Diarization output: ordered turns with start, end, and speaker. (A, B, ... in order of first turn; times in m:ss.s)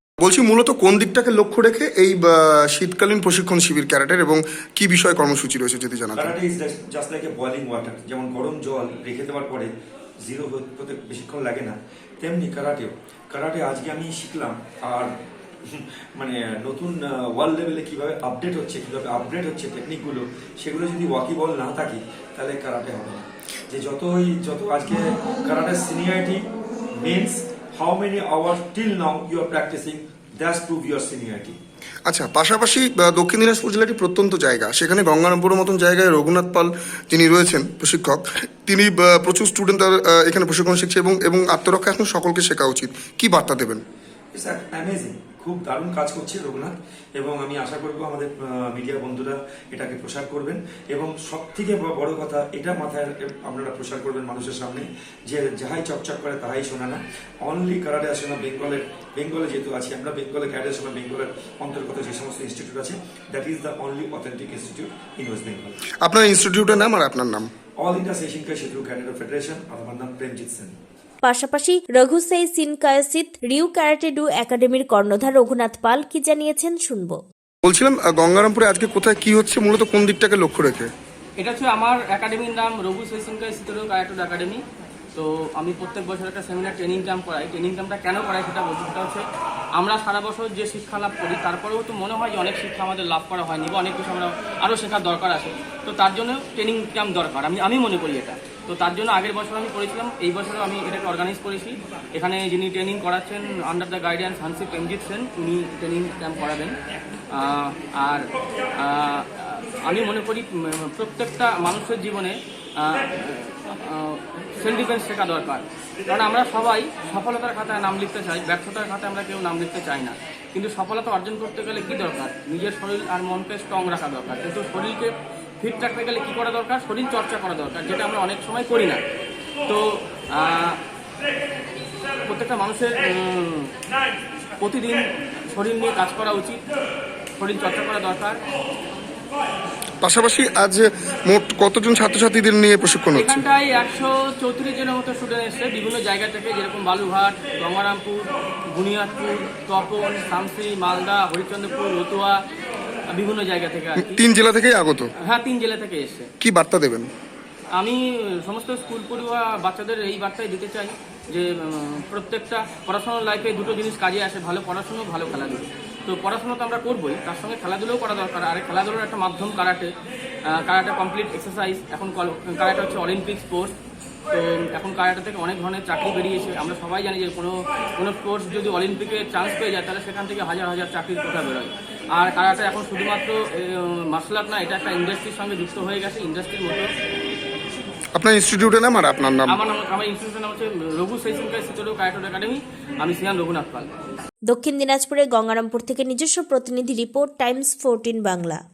0:00.2-0:06.3 A
0:06.2-0:09.7 B
0:10.2-0:15.1 B
0:15.7-0:26.4 B
0:27.0-0:31.6 B
0:32.1-0:43.8 A
0:44.4-1:05.8 B
1:06.0-1:07.5 A
1:07.8-1:10.8 B
1:11.2-1:17.2 C
1:17.6-1:20.9 A
1:21.4-1:24.6 D
1:25.2-1:29.2 D
1:29.8-1:46.7 D
1:47.3-1:48.3 D
1:48.8-2:09.0 D
2:09.7-2:10.8 D
2:12.3-2:13.7 D
2:14.6-2:15.0 D
2:15.5-2:16.6 D
2:17.4-2:18.4 D
2:20.0-2:23.4 A
2:23.2-2:32.4 D
2:33.1-2:34.2 D
2:34.0-2:35.1 A
2:35.2-2:36.3 D
2:36.4-2:37.1 A
2:37.8-2:49.9 D
2:50.6-2:53.7 D
2:54.3-3:06.9 D
3:08.2-3:09.6 A
3:09.5-3:13.9 D
3:14.5-3:18.6 C